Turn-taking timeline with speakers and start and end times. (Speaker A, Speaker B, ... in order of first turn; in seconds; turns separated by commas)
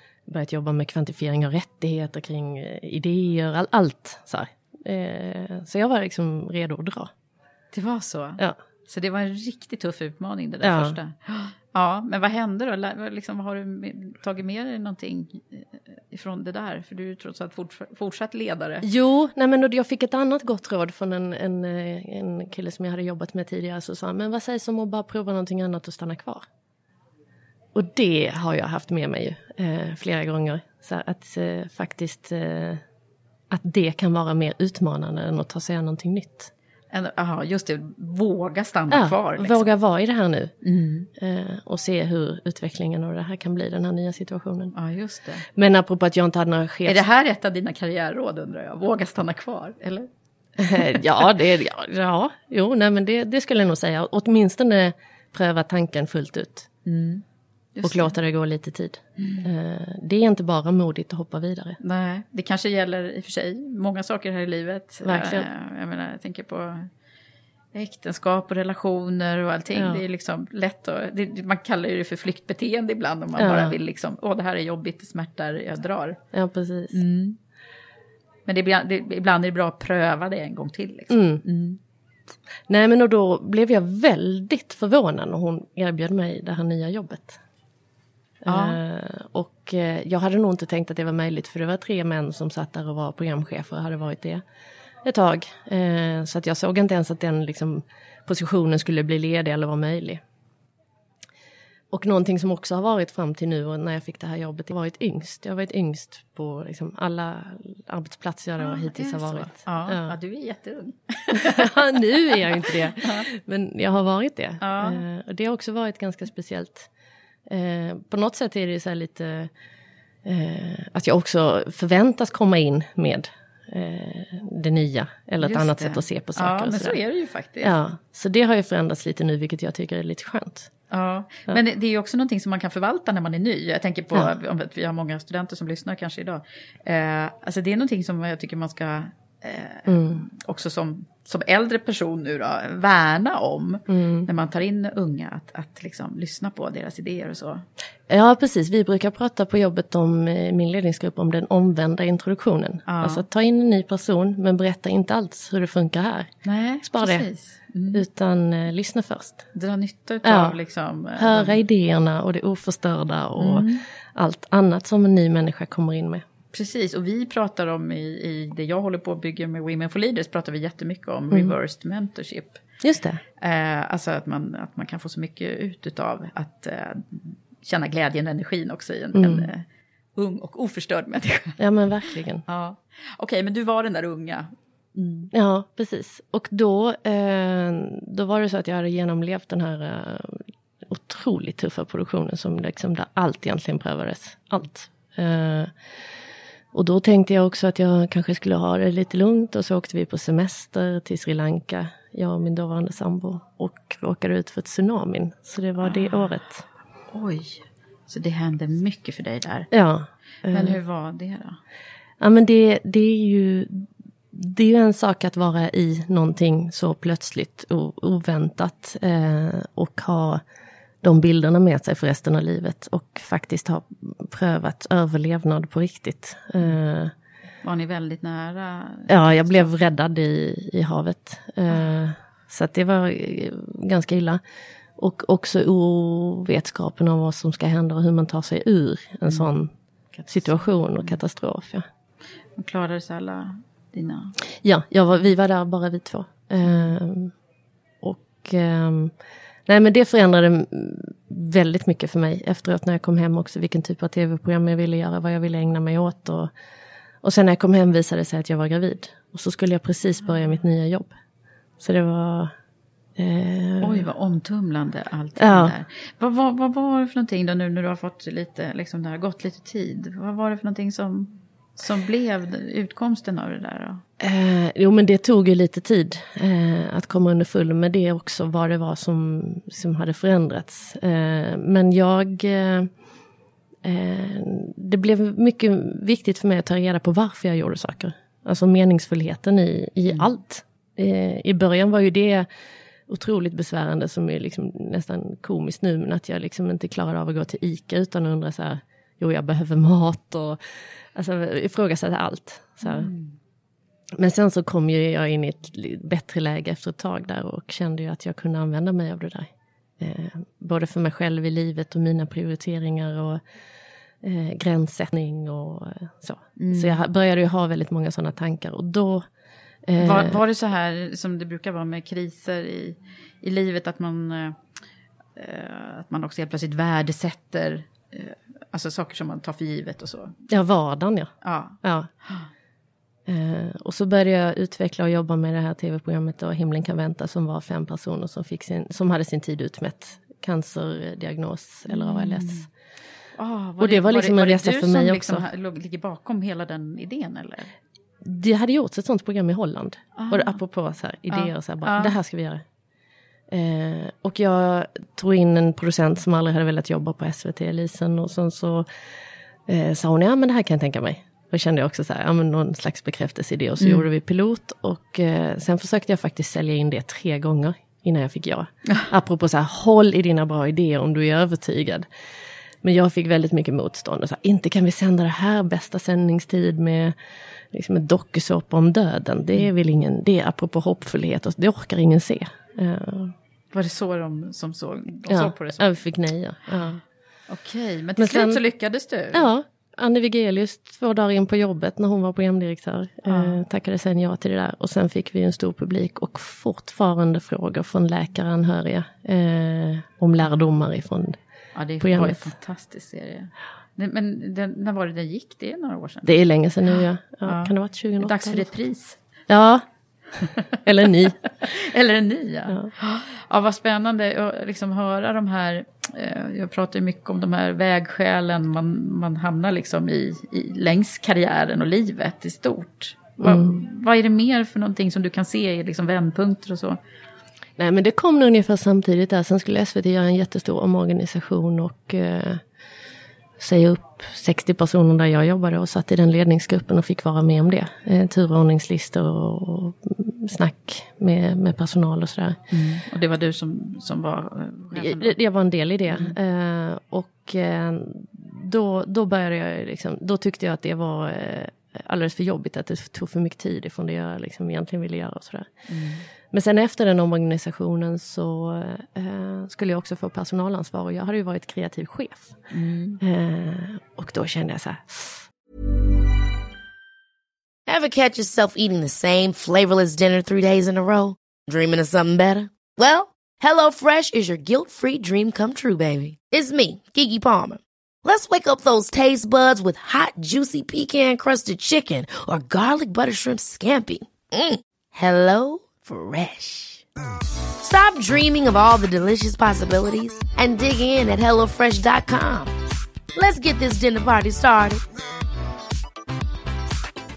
Speaker A: 0.3-7.1, Speaker B: 7.7-18.9, Speaker A: 10.6-11.0, Speaker A: 18.8-26.4, Speaker A: 27.8-32.8, Speaker A: 33.5-36.5, Speaker B: 36.9-39.7, Speaker A: 38.9-40.5, Speaker B: 40.6-41.1, Speaker A: 41.2-44.7, Speaker B: 44.8-45.5, Speaker A: 45.5-47.0, Speaker B: 46.9-50.1, Speaker A: 50.6-56.7, Speaker B: 56.9-57.2, Speaker B: 57.8-58.1, Speaker A: 57.8-61.8, Speaker B: 59.2-59.5, Speaker B: 61.8-66.9, Speaker A: 65.0-65.5, Speaker B: 67.7-76.2, Speaker A: 69.7-70.0, Speaker A: 73.4-73.8, Speaker A: 76.3-77.0, Speaker B: 76.9-77.4, Speaker B: 78.5-81.8, Speaker A: 81.1-81.4, Speaker A: 82.7-87.4, Speaker A: 88.4-94.4, Speaker B: 88.5-88.8, Speaker A: 95.0-100.2, Speaker A: 101.9-110.1, Speaker B: 108.6-113.3, Speaker A: 111.3-116.9, Speaker B: 114.6-115.0, Speaker A: 117.5-119.5, Speaker A: 120.2-127.0, Speaker B: 125.4-127.8, Speaker A: 127.6-130.7, Speaker B: 130.9-147.7, Speaker A: 139.9-140.2, Speaker A: 143.9-144.3, Speaker A: 148.1-156.3, Speaker B: 152.9-153.2, Speaker B: 156.5-158.0, Speaker A: 156.8-157.3, Speaker A: 157.9-159.4, Speaker B: 159.6-161.6, Speaker A: 160.2-160.6, Speaker A: 161.2-166.2, Speaker B: 163.4-163.8, Speaker B: 166.5-172.6, Speaker A: 172.8-173.2, Speaker B: 173.4-179.6, Speaker A: 179.1-179.5, Speaker B: 180.2-181.6, Speaker A: 181.6-182.4, Speaker B: 182.5-185.3, Speaker A: 185.3-195.7, Speaker A: 196.7-206.6, Speaker B: 205.8-206.3, Speaker B: 207.1-209.7, Speaker A: 209.7-210.8, Speaker B: 210.5-211.6, Speaker A: 212.2-220.4, Speaker A: 221.0-227.1, Speaker B: 227.6-229.7, Speaker A: 229.1-234.4, Speaker A: 235.0-239.7, Speaker B: 240.2-241.2, Speaker A: 240.3-241.9, Speaker B: 242.6-244.4, Speaker A: 244.6-247.3, Speaker B: 246.7-246.9, Speaker A: 248.0-249.1, Speaker A: 249.7-256.5, Speaker A: 257.2-261.1, Speaker A: 261.8-262.5, Speaker A: 263.2-264.1, Speaker B: 263.8-274.0, Speaker A: 265.4-265.7, Speaker A: 274.2-282.9, Speaker A: 283.8-292.5, Speaker A: 293.1-300.6, Speaker A: 301.1-303.1, Speaker B: 302.8-303.3, Speaker A: 304.1-313.4, Speaker A: 314.2-319.2, Speaker B: 316.6-317.0, Speaker A: 319.9-320.4, Speaker B: 320.0-324.6, Speaker B: 325.4-330.3, Speaker A: 330.5-332.1, Speaker B: 331.4-332.5, Speaker A: 333.3-342.7, Speaker B: 341.9-342.7, Speaker B: 343.4-347.7, Speaker A: 343.8-345.4, Speaker A: 348.2-352.6, Speaker B: 350.2-350.6, Speaker B: 351.3-352.2, Speaker A: 353.5-358.9, Speaker A: 359.7-372.1, Speaker B: 363.8-364.1, Speaker A: 372.8-377.1, Speaker A: 377.7-383.3, Speaker B: 383.7-385.9, Speaker A: 385.3-387.0, Speaker B: 387.5-389.5, Speaker A: 388.2-388.6, Speaker A: 389.3-401.4, Speaker B: 393.3-393.6, Speaker B: 401.8-406.3, Speaker A: 402.0-402.5, Speaker A: 406.2-408.7, Speaker B: 406.9-409.2, Speaker A: 409.5-409.9, Speaker A: 410.9-411.4, Speaker B: 411.6-427.0, Speaker A: 423.4-423.8, Speaker A: 427.8-432.6, Speaker A: 433.6-442.6, Speaker B: 442.7-445.4, Speaker A: 444.9-455.8, Speaker B: 446.1-446.3, Speaker B: 455.9-456.2, Speaker A: 456.5-462.6, Speaker B: 462.7-463.2, Speaker A: 463.2-465.5, Speaker C: 467.9-487.0, Speaker C: 487.8-492.7, Speaker C: 493.4-495.0